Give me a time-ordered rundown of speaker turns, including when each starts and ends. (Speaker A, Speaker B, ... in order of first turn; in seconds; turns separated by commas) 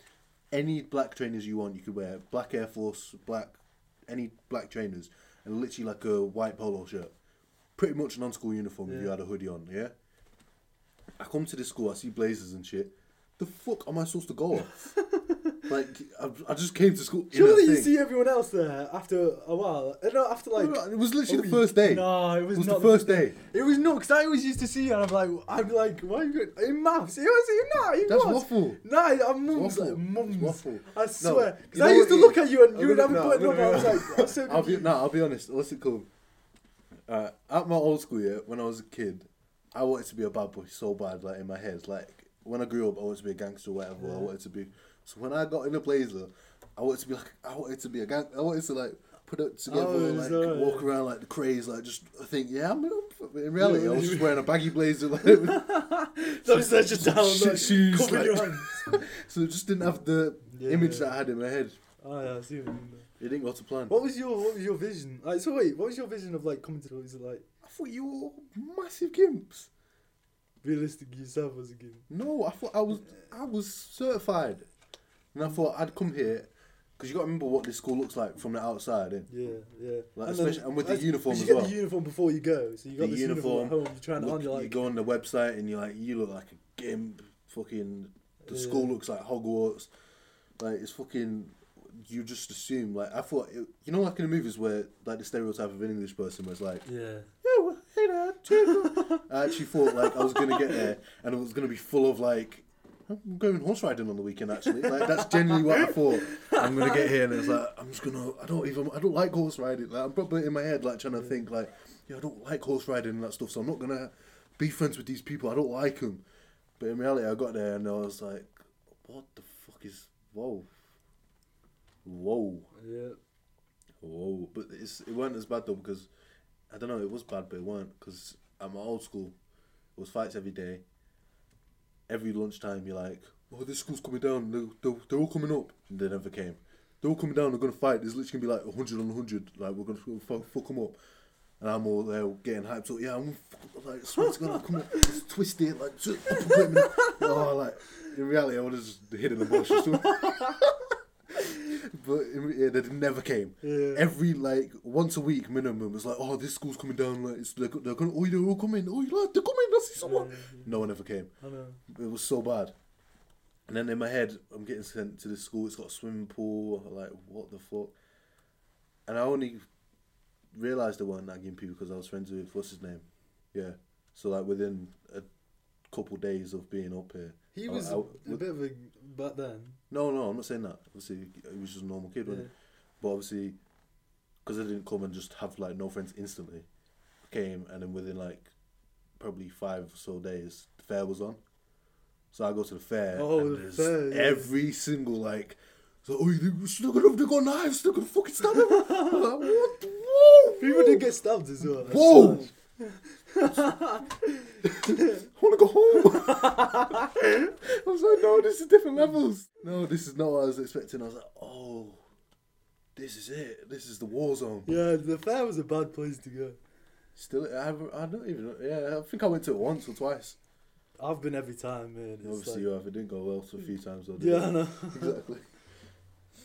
Speaker A: 0.5-7.1, Speaker A: 7.8-9.9, Speaker B: 8.9-9.1, Speaker A: 11.2-14.9, Speaker B: 14.8-15.7, Speaker A: 15.7-18.0, Speaker B: 17.3-34.9, Speaker A: 20.6-23.4, Speaker A: 28.1-28.8, Speaker A: 29.5-36.1, Speaker A: 37.1-55.8, Speaker B: 44.0-44.3, Speaker B: 49.7-50.9, Speaker B: 53.6-54.5, Speaker B: 55.2-59.0, Speaker A: 56.4-61.8, Speaker B: 60.5-61.2, Speaker B: 62.0-63.1, Speaker A: 63.2-64.0, Speaker B: 63.9-67.5, Speaker A: 67.6-69.7, Speaker B: 70.6-72.1, Speaker A: 72.1-74.7, Speaker A: 75.3-79.3, Speaker B: 79.3-84.9, Speaker A: 80.2-81.8, Speaker A: 83.0-89.9, Speaker B: 88.5-89.0, Speaker A: 90.6-96.8, Speaker B: 96.8-97.3, Speaker A: 97.4-116.2, Speaker B: 98.5-100.8, Speaker B: 104.7-107.2, Speaker A: 116.8-120.9, Speaker A: 122.0-122.7, Speaker B: 122.8-123.2, Speaker A: 124.0-126.1, Speaker A: 126.7-129.3, Speaker A: 130.0-130.8, Speaker A: 132.1-141.0, Speaker A: 141.6-161.3, Speaker B: 144.9-145.1, Speaker B: 146.4-147.3, Speaker B: 149.7-150.6, Speaker B: 153.6-154.1, Speaker B: 160.0-160.8, Speaker B: 161.4-161.8, Speaker A: 161.9-162.7, Speaker A: 163.7-167.9, Speaker A: 169.1-169.7, Speaker A: 170.5-175.3, Speaker A: 175.9-178.4, Speaker B: 177.5-179.8, Speaker A: 179.9-182.5, Speaker A: 183.0-183.6, Speaker A: 184.4-186.7, Speaker A: 187.2-188.5, Speaker A: 189.2-191.4, Speaker A: 192.3-201.1, Speaker B: 193.1-194.5, Speaker B: 198.9-199.2, Speaker B: 200.6-205.3, Speaker A: 201.6-202.5, Speaker A: 204.6-212.0, Speaker B: 206.2-207.2, Speaker A: 212.9-214.7, Speaker B: 214.7-216.6, Speaker A: 217.2-220.4, Speaker B: 221.0-222.7, Speaker A: 222.2-225.5, Speaker B: 224.2-225.2